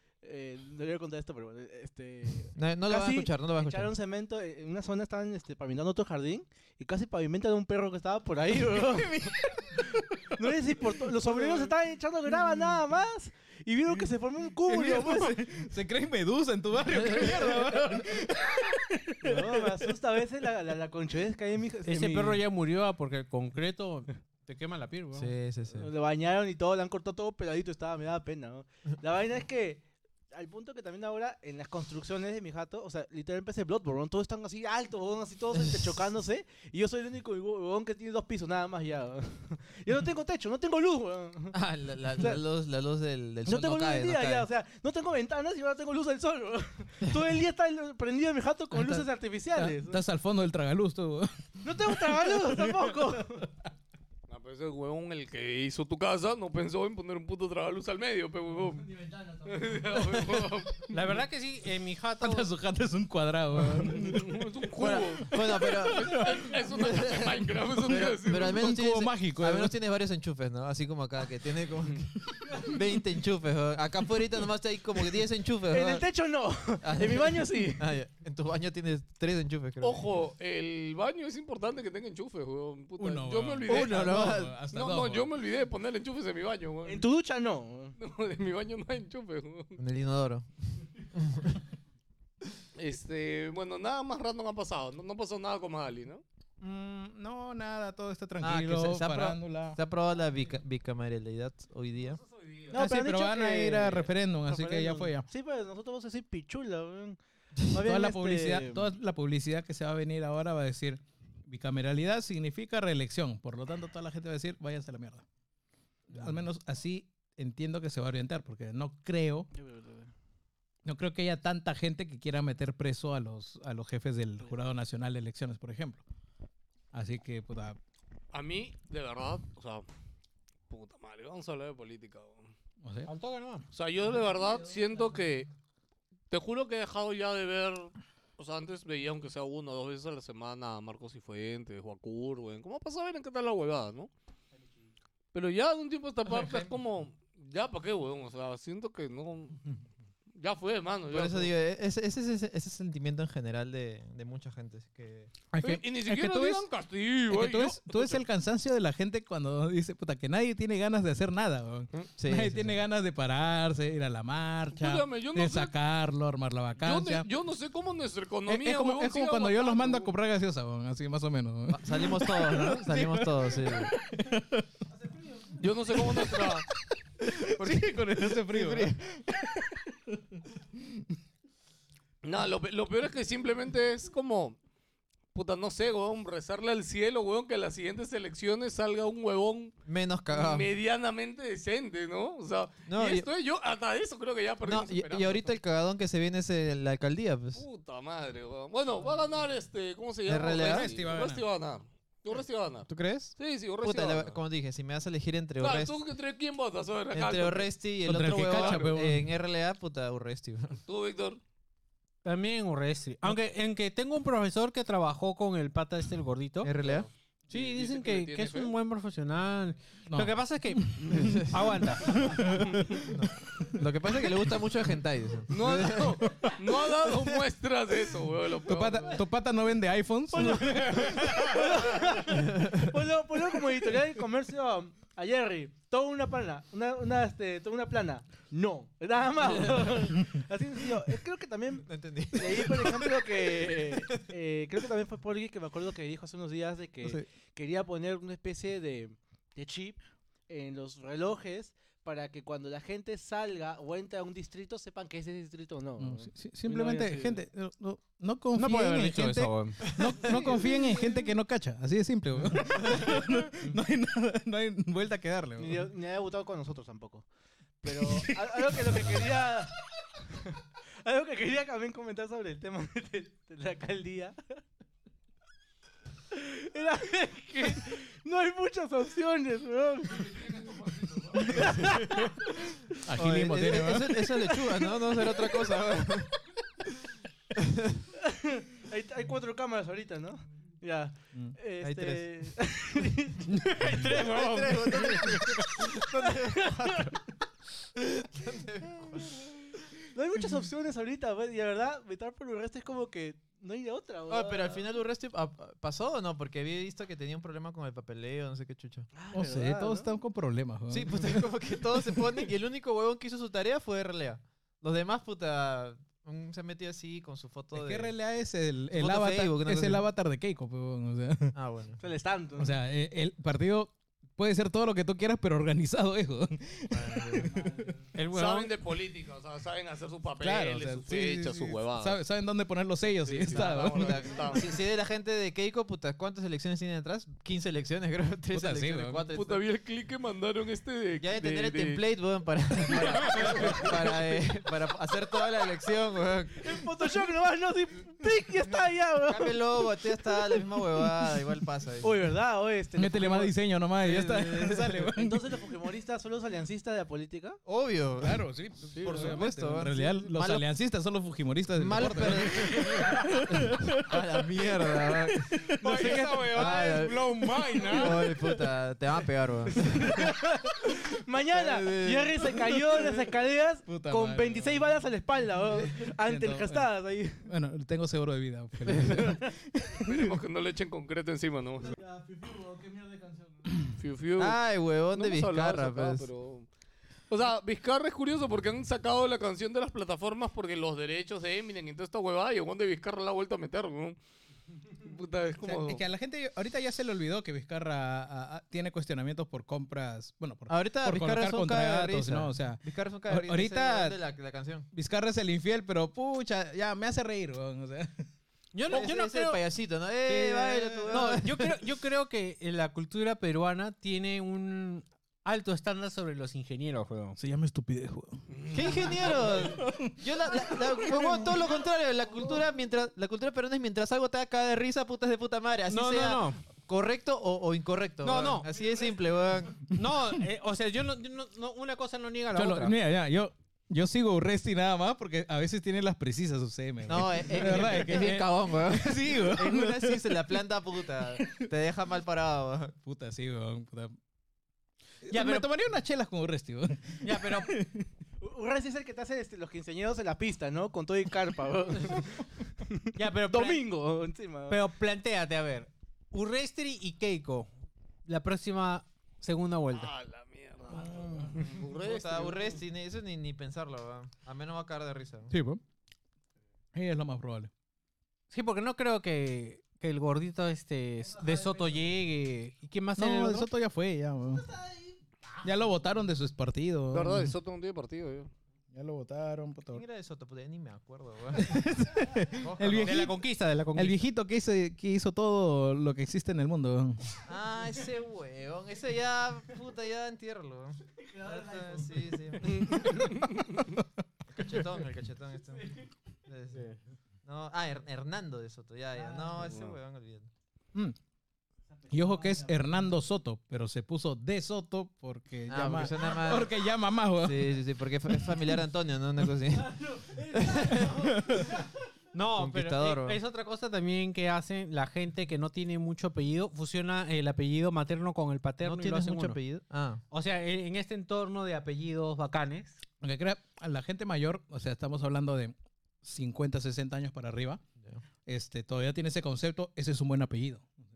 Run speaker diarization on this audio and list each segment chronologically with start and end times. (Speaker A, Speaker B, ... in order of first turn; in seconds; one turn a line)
Speaker A: 0.2-9.2
Speaker B: 2.5-3.9
Speaker C: 8.9-10.4
Speaker A: 10.3-15.5
Speaker C: 11.1-11.7
Speaker C: 14.6-19.8
Speaker B: 17.0-17.4
Speaker A: 19.2-22.4
Speaker D: 21.9-25.3
Speaker B: 25.1-25.9
Speaker A: 25.7-41.5
Speaker B: 41.5-44.5
Speaker A: 43.5-50.0
Speaker C: 49.5-53.0
Speaker A: 51.6-53.5
Speaker E: 54.3-60.9
Speaker D: 60.9-62.5
Speaker C: 62.2-64.5
Speaker E: 63.9-68.6
Speaker B: 64.8-76.0
Speaker C: 66.0-66.5
Speaker C: 68.5-69.7
Speaker A: 75.7-77.8
Speaker B: 76.8-80.0
Speaker E: 79.8-87.0
Speaker C: 83.0-85.3
Speaker B: 83.7-84.5
Speaker A: 86.8-87.9
Speaker E: 88.0-89.8
Speaker B: 89.8-90.5
Speaker B: 91.1-91.5
Speaker E: 92.8-96.2
Speaker C: 96.6-99.8
Speaker B: 98.4-102.2
Speaker E: 102.1-102.8
Speaker A: 102.7-107.2
Speaker C: 102.7-105.3
Speaker A: 107.7-108.9
Speaker C: 107.8-115.2
Speaker C: 116.1-119.5
Speaker A: 119.5-120.1
Speaker C: 120.8-126.0
Speaker C: 126.9-127.8
Speaker E: 128.3-129.8
Speaker E: 130.7-132.5
Speaker C: 132.8-133.1
Speaker D: 133.1-133.7
Speaker E: 133.7-135.5
Speaker E: 136.3-144.1
Speaker E: 145.3-149.6
Speaker E: 150.3-151.5
Speaker B: 151.1-155.3
Speaker C: 155.5-156.6
Speaker E: 155.6-158.2
Speaker C: 157.3-167.3
Speaker B: 162.2-162.8
Speaker E: 164.7-165.7
Speaker E: 166.8-170.1
Speaker C: 168.5-174.7
Speaker B: 171.7-173.9
Speaker E: 175.6-176.7
Speaker C: 176.0-176.6
Speaker C: 177.2-181.0
Speaker B: 178.4-179.0
Speaker E: 182.2-184.6
Speaker E: 185.3-189.7
Speaker B: 189.9-190.7
Speaker E: 190.3-195.6
Speaker B: 192.9-193.3
Speaker B: 194.6-197.6
Speaker E: 197.6-204.4
Speaker B: 200.3-201.0
Speaker C: 200.5-201.4
Speaker B: 202.9-206.0
Speaker E: 205.6-207.7
Speaker B: 207.1-210.8
Speaker C: 208.0-209.3
Speaker E: 208.4-208.9
Speaker E: 210.8-211.4
Speaker D: 212.2-216.7
Speaker B: 216.6-217.1
Speaker E: 216.8-218.7
Speaker D: 217.5-222.4
Speaker C: 220.1-223.2
Speaker B: 221.1-221.5
Speaker B: 222.1-222.5
Speaker B: 223.0-226.2
Speaker E: 225.5-229.2
Speaker B: 227.1-227.4
Speaker C: 228.7-231.8
Speaker A: 230.3-257.4
Speaker B: 232.4-232.9
Speaker B: 241.8-244.0
Speaker C: 256.0-265.9
Speaker D: 258.5-259.8
Speaker A: 265.6-267.2
Speaker A: 267.8-269.7
Speaker A: 270.3-274.4
Speaker A: 276.3-280.7
Speaker A: 281.3-282.7
Speaker C: 283.0-284.3
Speaker B: 283.1-286.3
Speaker B: 287.6-288.0
Speaker A: 288.2-293.5
Speaker B: 291.8-292.3
Speaker D: 293.5-295.6
Speaker B: 294.0-297.1
Speaker A: 296.7-297.1
Speaker B: 298.2-299.4
Speaker A: 300.1-304.8
Speaker B: 304.3-309.1
Speaker A: 309.1-310.1
Speaker C: 309.3-311.4
Speaker B: 310.9-318.1
Speaker C: 317.7-321.5
Speaker B: 318.9-320.0
Speaker B: 321.5-322.0
Speaker A: 322.0-322.8
Speaker C: 322.6-327.9
Speaker B: 326.9-327.5
Speaker D: 328.1-328.7
Speaker E: 328.3-332.2
Speaker C: 330.4-334.3
Speaker E: 333.2-334.7
Speaker B: 333.5-339.6
Speaker C: 338.5-339.2
Speaker E: 339.3-342.0
Speaker B: 341.2-346.8
Speaker E: 343.4-344.0
Speaker A: 346.6-349.6
Speaker B: 349.3-352.1
Speaker A: 352.0-353.6
Speaker C: 352.9-355.5
Speaker B: 354.0-355.0
Speaker A: 355.1-357.6
Speaker B: 357.6-358.4
Speaker C: 358.2-364.0
Speaker B: 358.9-360.6
Speaker A: 359.0-359.4
Speaker B: 361.7-365.6
Speaker C: 365.7-366.7
Speaker D: 365.8-367.7
Speaker B: 366.5-367.3
Speaker C: 367.4-368.1
Speaker B: 367.9-370.3
Speaker A: 370.0-377.5
Speaker B: 371.5-372.5
Speaker C: 373.8-374.8
Speaker C: 375.8-376.9
Speaker C: 377.4-380.4
Speaker B: 378.9-379.2
Speaker E: 380.1-382.0
Speaker A: 381.9-383.6
Speaker E: 383.9-384.6
Speaker B: 384.4-386.3
Speaker E: 385.1-386.7
Speaker E: 387.3-394.2
Speaker E: 395.0-396.0
Speaker C: 395.6-404.2
Speaker B: 400.7-404.9
Speaker C: 404.9-408.2
Speaker D: 408.7-409.6
Speaker B: 408.9-411.8
Speaker D: 410.2-417.4
Speaker C: 417.4-418.4
Speaker E: 418.5-419.5
Speaker B: 418.7-429.8
Speaker C: 419.6-420.2
Speaker D: 425.9-426.6
Speaker D: 428.2-428.7
Speaker D: 429.9-432.9
Speaker C: 432.5-440.2
Speaker B: 437.1-442.9
Speaker C: 443.0-444.1
Speaker C: 445.2-448.1
Speaker D: 445.3-445.7
Speaker D: 447.2-447.7
Speaker A: 448.4-454.8
Speaker D: 453.1-453.8
Speaker D: 454.7-457.7
Speaker D: 458.3-460.1
Speaker E: 459.9-462.8
Speaker B: 461.9-465.5
Speaker C: 465.5-465.8
Speaker C: 466.9-467.7
Speaker D: 468.5-473.7
Speaker C: 473.2-474.7
Speaker C: 475.6-477.5
Speaker E: 477.1-478.5
Speaker C: 478.9-480.0
Speaker B: 479.9-481.9
Speaker C: 481.6-483.4
Speaker B: 482.4-483.2
Speaker D: 483.0-484.2
Speaker C: 483.9-487.4
Speaker B: 487.4-493.2
Speaker A: 491.2-492.3
Speaker C: 493.8-494.0
Speaker B: 494.5-496.9
Speaker B: 497.4-500.5
Speaker A: 499.2-499.6
Speaker A: 502.1-502.9
Speaker C: 502.1-507.7
Speaker B: 505.7-506.7
Speaker B: 507.4-511.2
Speaker A: 509.8-511.4
Speaker C: 511.2-511.7
Speaker D: 512.3-519.6
Speaker B: 512.5-513.4
Speaker B: 518.8-520.2
Speaker D: 520.3-523.0
Speaker C: 523.2-527.8
Speaker C: 528.4-530.9